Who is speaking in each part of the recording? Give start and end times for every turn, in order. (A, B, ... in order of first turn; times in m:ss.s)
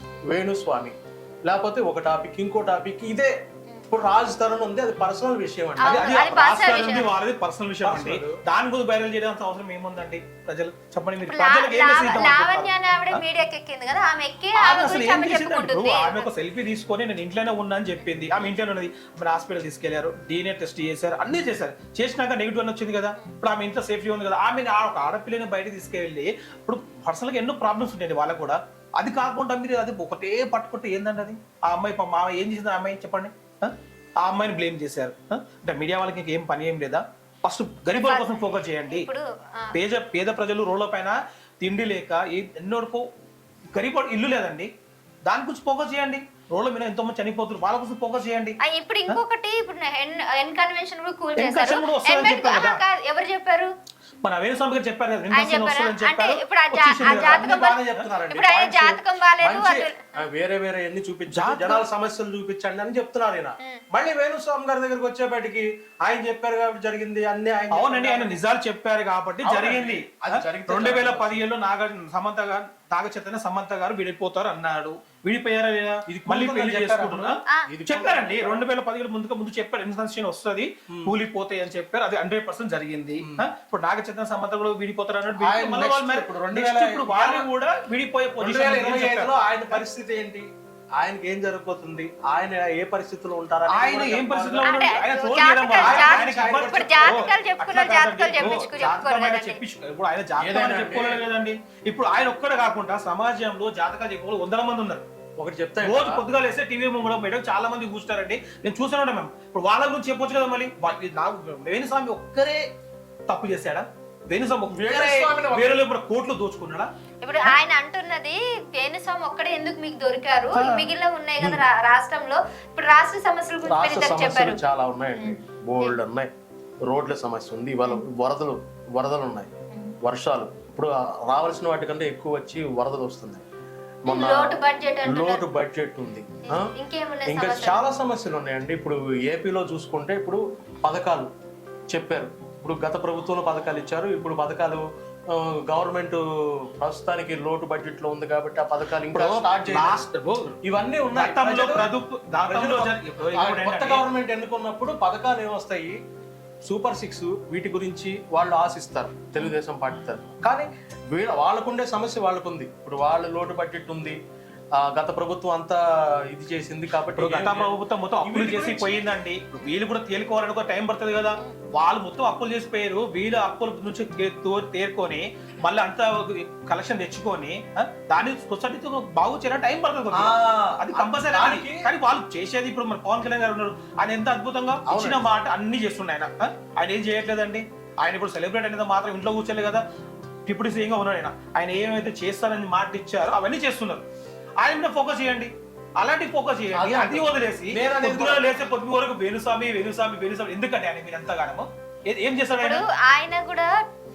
0:00.2-0:03.3 A
0:03.9-0:06.3 A
0:05.8-0:07.1 B
0:05.8-0:13.2 C
0:07.8-0:08.4 A
0:11.2-0:16.2 B
0:14.6-0:39.1 C
0:18.0-0:18.5 B
0:37.9-0:39.8 B
0:39.7-0:43.1 C
0:43.7-0:44.7 C
0:45.2-0:49.2 C
0:48.6-0:53.7 B
0:51.4-0:52.8 C
0:54.2-0:58.1 C
0:55.3-0:57.8 B
0:57.0-1:08.4 A
0:58.3-1:00.1 B
1:01.3-1:01.8 C
1:07.7-1:29.8 C
1:09.4-1:11.4 A
1:16.1-1:18.6 A
1:20.9-1:21.1 A
1:23.2-1:23.5 A
1:25.4-1:27.5 A
1:28.4-1:34.7 A
1:33.7-1:45.0 C
1:34.6-1:39.6 B
1:35.8-1:37.2 A
1:40.4-1:41.2 A
1:45.4-1:46.2 A
1:45.8-1:52.7 C
1:53.3-1:56.9 C
1:54.7-1:55.8 A
1:57.2-2:04.6 B
2:00.5-2:00.9 C
2:01.4-2:01.6 A
2:03.7-2:06.3 A
2:05.2-2:06.0 B
2:06.8-2:09.5 A
2:10.0-2:13.4 A
2:14.0-2:16.7 A
2:14.1-2:15.4 B
2:16.5-2:17.8 B
2:17.2-2:21.3 A
2:21.9-2:30.0 A
2:29.1-2:30.5 C
2:30.6-2:31.9 A
2:31.1-2:34.0 C
2:32.4-2:36.0 A
2:36.6-2:44.2 A
2:44.7-2:49.0 A
2:47.2-3:09.8 C
3:00.1-3:01.8 A
3:04.9-3:05.2 A
3:10.5-3:14.0 C
3:14.6-3:22.8 C
3:16.7-3:18.5 A
3:22.6-3:23.7 B